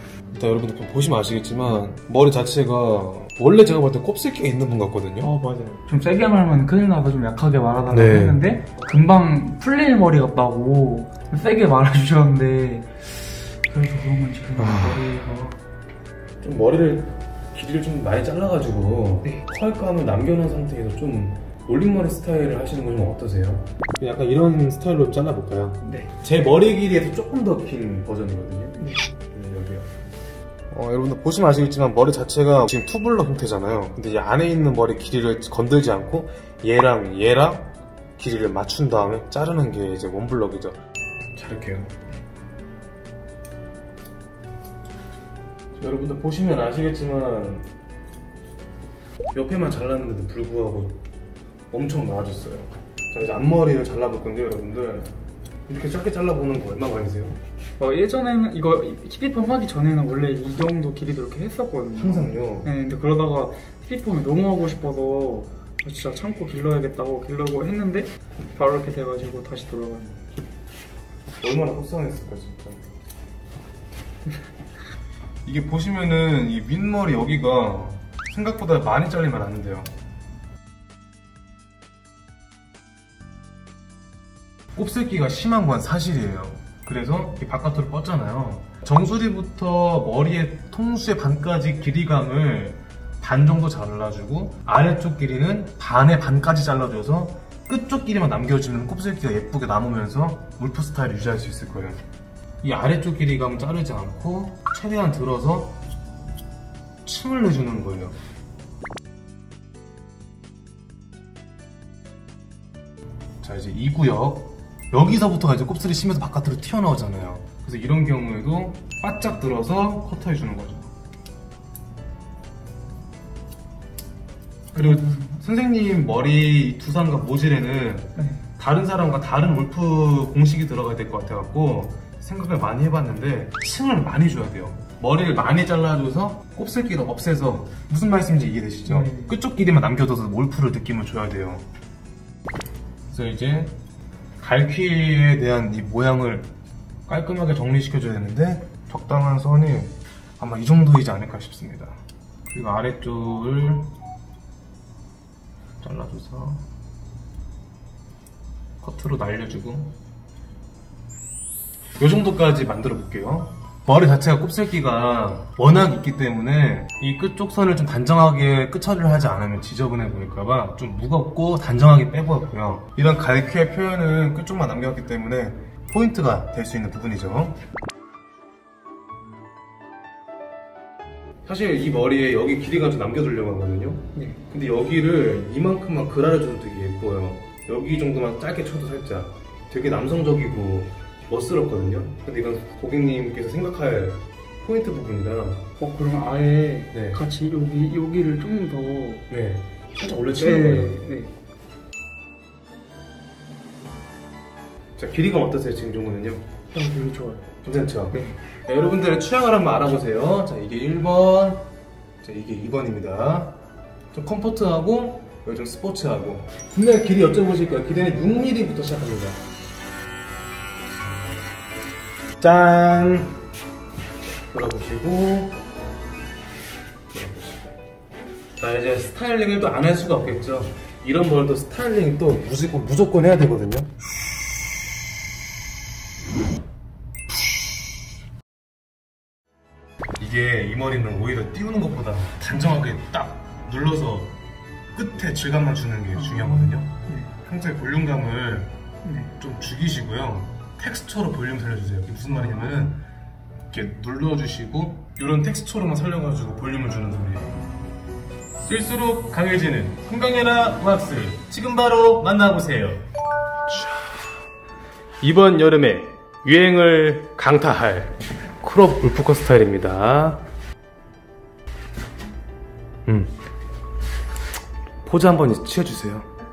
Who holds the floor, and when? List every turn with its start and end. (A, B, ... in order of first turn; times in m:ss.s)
0:00.3-0:05.3 A
0:05.2-0:15.6 B
0:07.9-0:08.4 A
0:14.6-0:15.0 A
0:16.4-0:29.9 A
0:25.8-0:26.1 B
0:28.8-0:29.1 B
0:30.7-0:40.8 A
0:41.4-0:41.9 A
0:45.8-0:47.6 A
0:49.3-0:51.0 A
0:51.7-0:55.1 A
0:55.7-0:57.4 A
0:57.8-1:10.3 B
1:02.0-1:02.7 A
1:11.4-1:12.8 A
1:15.4-1:19.9 A
1:24.7-1:42.0 A
1:42.6-1:45.8 A
1:47.0-1:48.1 A
1:53.4-2:00.9 A
2:04.7-2:21.6 A
2:04.7-2:05.4 B
2:08.2-2:08.4 B
2:18.8-2:19.3 B
2:23.1-2:23.7 A
2:24.4-2:26.5 A
2:27.1-2:33.9 A
2:35.8-2:36.6 A
2:38.8-2:40.0 A
2:42.0-2:57.6 A
3:01.4-3:15.6 A
3:15.8-3:19.2 B
3:16.9-3:17.2 A
3:19.3-3:21.0 A
3:20.3-3:21.3 B
3:25.0-3:26.4 A
3:26.7-3:27.5 B
3:27.6-3:31.7 A
3:28.1-3:28.4 B
3:32.2-3:33.6 A
3:34.1-3:39.4 A
3:42.4-3:43.4 A
3:44.5-3:45.6 A
3:47.1-3:47.6 A
3:48.6-3:53.9 A
4:00.2-4:04.3 A
4:04.9-4:08.7 A
4:06.1-4:07.3 B
4:09.0-4:09.3 B
4:09.4-4:13.0 A
4:13.7-4:17.6 A
4:18.6-4:23.0 A
4:23.7-4:24.1 A
4:25.2-4:30.4 A
4:33.1-4:33.3 A
4:35.0-4:36.3 A